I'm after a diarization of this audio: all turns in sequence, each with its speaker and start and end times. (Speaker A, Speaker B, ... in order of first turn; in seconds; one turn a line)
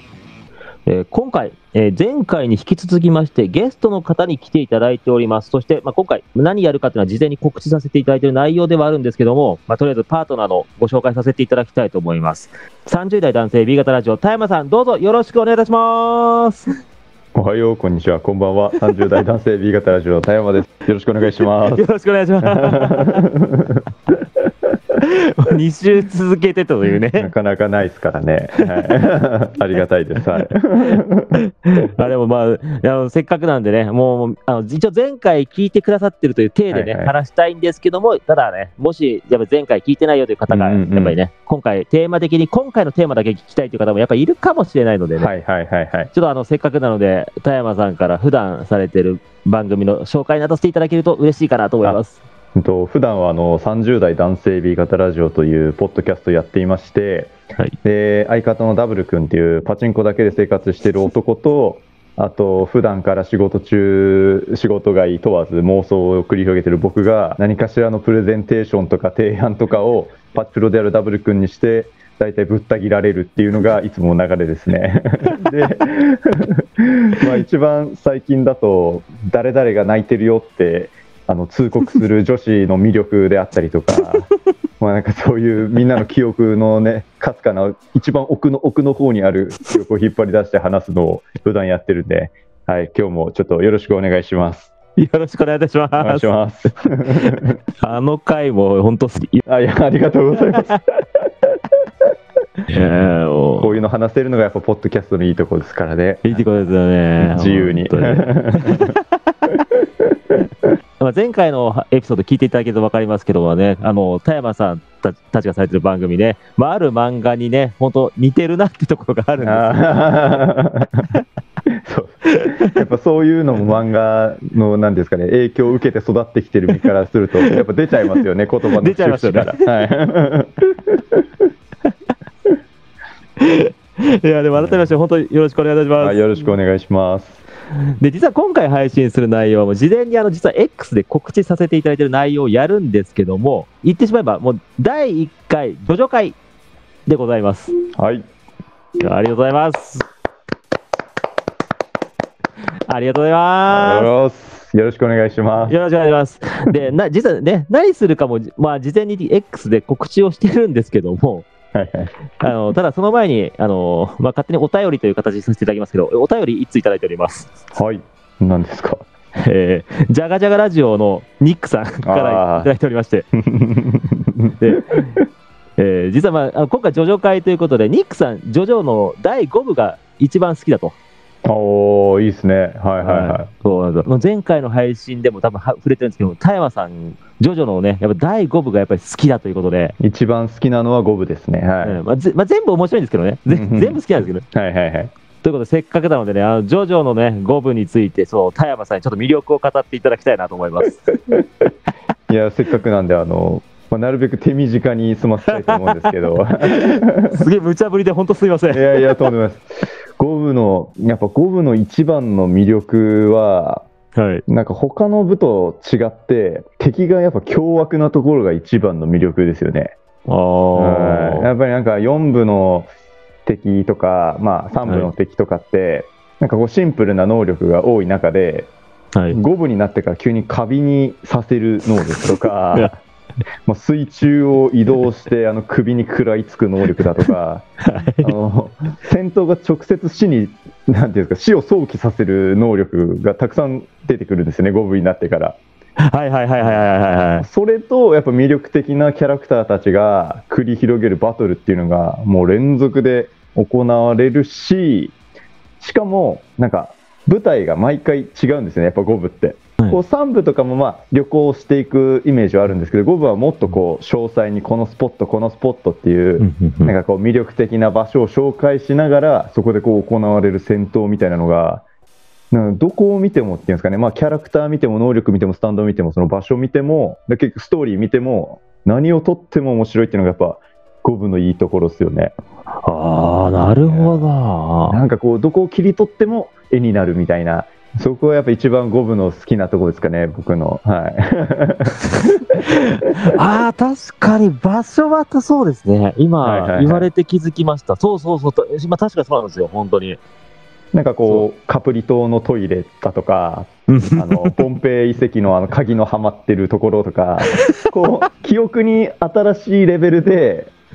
Speaker A: 0.8-16.7
Speaker B: 17.3-21.8
Speaker A: 21.7-23.3
Speaker B: 22.4-24.5
Speaker A: 25.0-27.3
Speaker B: 27.1-31.3
Speaker A: 28.6-28.9
Speaker A: 30.4-45.3
Speaker B: 36.7-37.1
Speaker B: 40.5-41.1
Speaker B: 45.2-46.1
Speaker A: 46.1-52.2
Speaker B: 52.5-94.7
Speaker A: 95.0-96.3
Speaker B: 96.0-97.6
Speaker A: 97.1-99.4
Speaker B: 99.4-101.6
Speaker A: 102.7-103.7
Speaker B: 103.6-106.4
Speaker A: 106.2-109.0
Speaker B: 107.2-109.0
Speaker B: 109.7-110.3
Speaker A: 111.0-120.3
Speaker B: 119.4-121.1
Speaker B: 121.7-131.2
Speaker A: 122.3-122.8
Speaker A: 128.8-129.7
Speaker A: 133.4-136.2
Speaker B: 134.6-134.9
Speaker B: 136.0-137.4
Speaker A: 138.0-146.4
Speaker A: 147.1-147.7
Speaker B: 147.9-148.2
Speaker A: 149.0-150.0
Speaker A: 152.9-154.1
Speaker B: 153.7-155.7
Speaker A: 155.7-161.5
Speaker B: 161.7-162.1
Speaker A: 162.4-167.5
Speaker B: 167.7-169.0
Speaker A: 169.4-173.3
Speaker B: 172.0-172.7
Speaker B: 173.3-175.2
Speaker A: 174.6-175.0
Speaker A: 175.8-180.9
Speaker B: 181.4-183.5
Speaker A: 183.0-189.9
Speaker B: 190.0-192.0
Speaker A: 191.8-194.4
Speaker B: 193.5-195.1
Speaker A: 195.4-201.1
Speaker B: 202.3-207.4
Speaker A: 205.5-209.2
Speaker B: 208.7-213.9
Speaker A: 214.2-214.4
Speaker B: 214.5-219.9
Speaker A: 220.3-221.5
Speaker B: 220.8-222.9
Speaker B: 223.4-228.7
Speaker B: 229.3-233.0
Speaker B: 233.7-237.7
Speaker A: 237.8-238.3
Speaker B: 238.2-245.6
Speaker A: 246.0-247.5
Speaker B: 247.4-255.1
Speaker B: 255.8-271.8
Speaker A: 266.4-266.9
Speaker B: 272.5-282.3
Speaker A: 282.8-285.0
Speaker B: 283.5-284.3
Speaker B: 284.9-292.6
Speaker A: 292.2-300.2
Speaker B: 296.4-297.1
Speaker B: 300.9-310.7
Speaker A: 303.9-304.6